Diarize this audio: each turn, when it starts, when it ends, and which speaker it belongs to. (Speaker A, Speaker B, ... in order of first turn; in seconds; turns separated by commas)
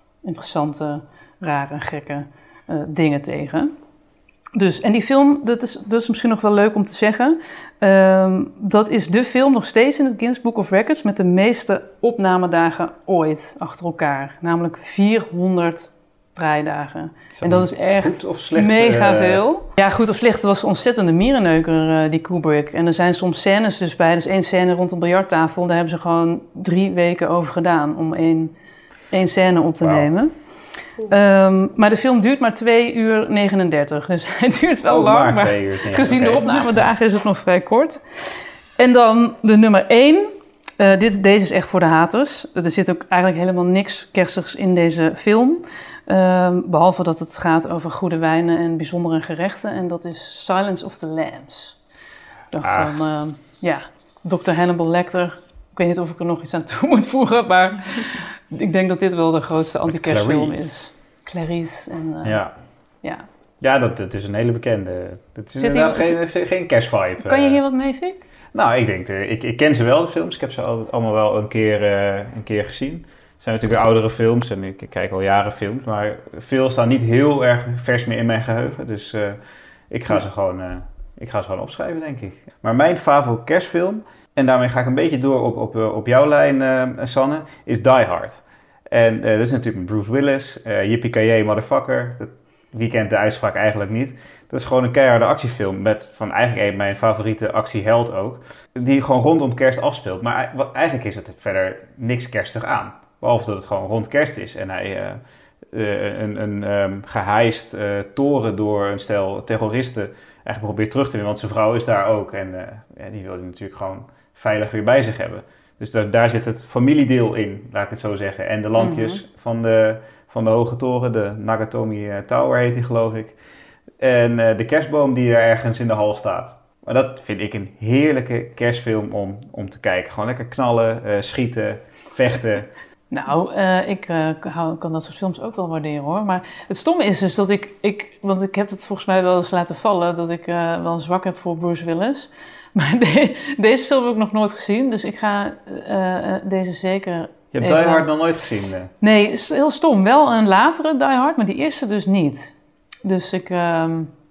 Speaker A: 0.2-3.7, Speaker A: 4.5-28.5, Speaker B: 17.4-19.4, Speaker A: 29.1-30.3, Speaker B: 29.8-30.1, Speaker A: 31.1-38.0, Speaker B: 34.9-36.8, Speaker A: 38.8-51.8, Speaker A: 52.5-62.4, Speaker B: 52.6-53.0, Speaker B: 59.9-60.7, Speaker B: 62.2-62.5, Speaker B: 63.6-67.6, Speaker A: 65.6-66.2, Speaker A: 67.2-68.2, Speaker B: 68.5-123.3, Speaker A: 118.8-119.2, Speaker B: 124.0-132.7, Speaker A: 133.1-148.1, Speaker B: 147.5-148.9, Speaker A: 149.0-154.1